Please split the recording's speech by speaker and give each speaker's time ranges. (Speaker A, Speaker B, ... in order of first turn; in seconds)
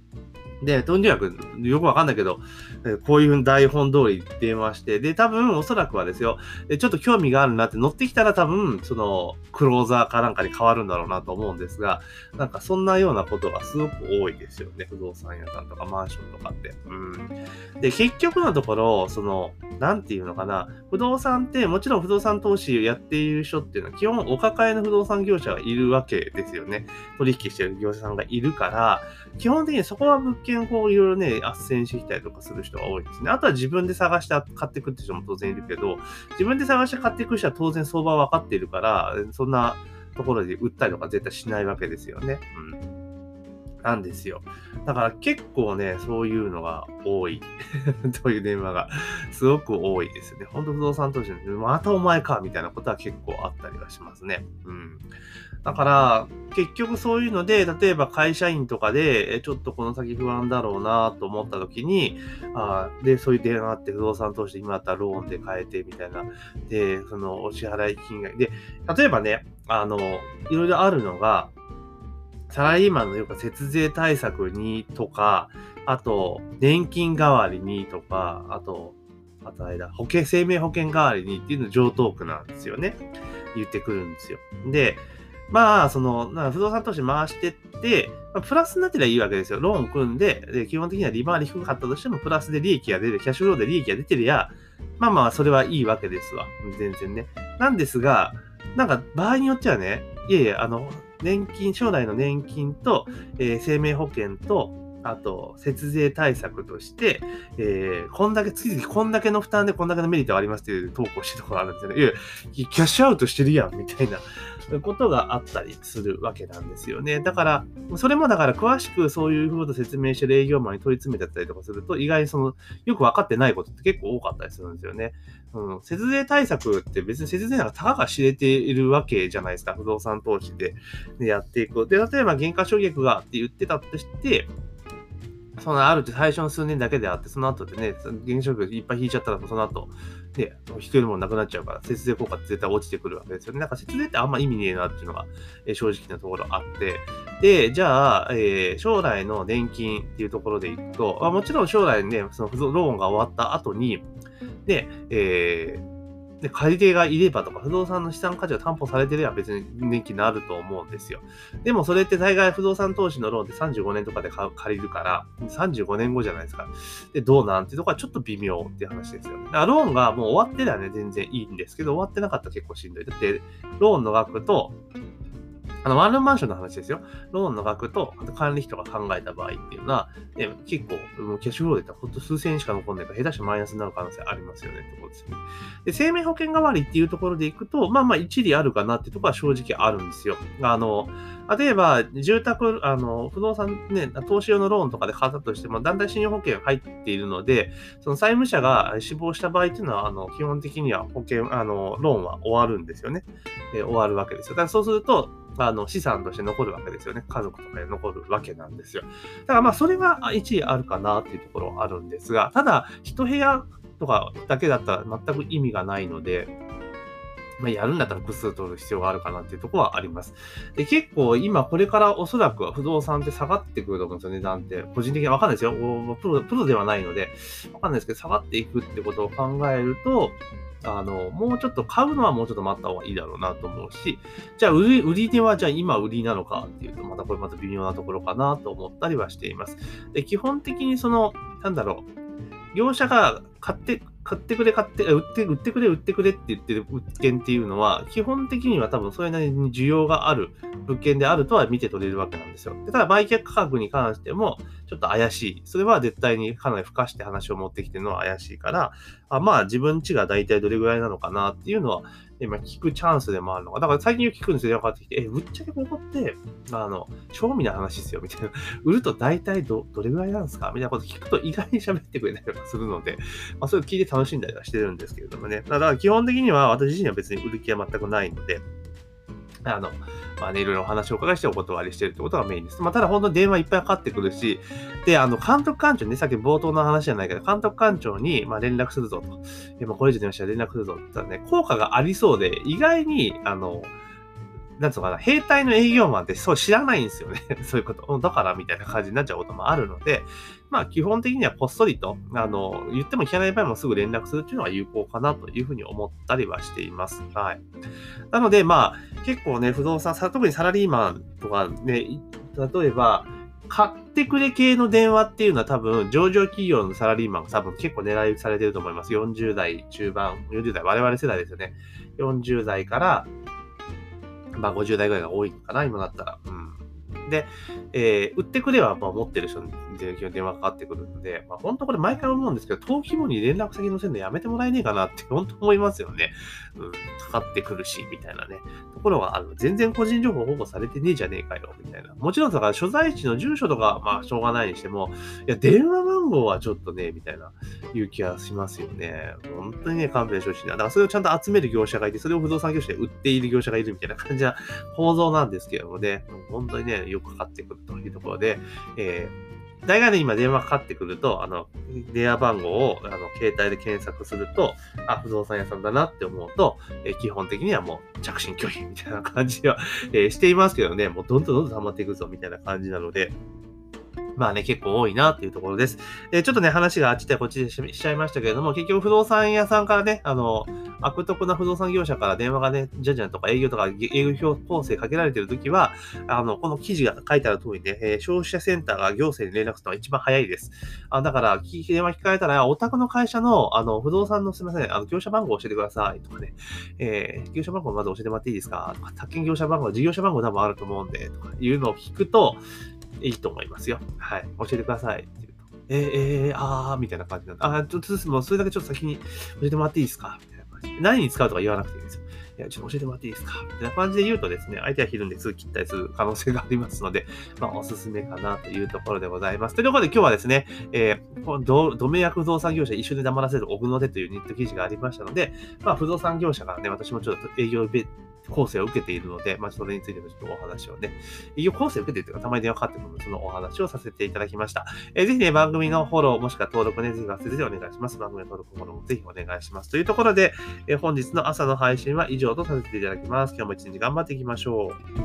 Speaker A: 0.6-42.8, 43.8-55.1, 55.6-71.5, 72.5-83.0, 83.5-134.5, 135.6-154.1, 154.7-155.8, 156.4-174.7, 175.8-216.5, 217.6-242.1, 242.7-278.6, 279.6-293.9, 294.8-307.6, 308.3-323.3, 324.6-359.3, 359.8-373.3, 374.4-402.6, 403.2-445.0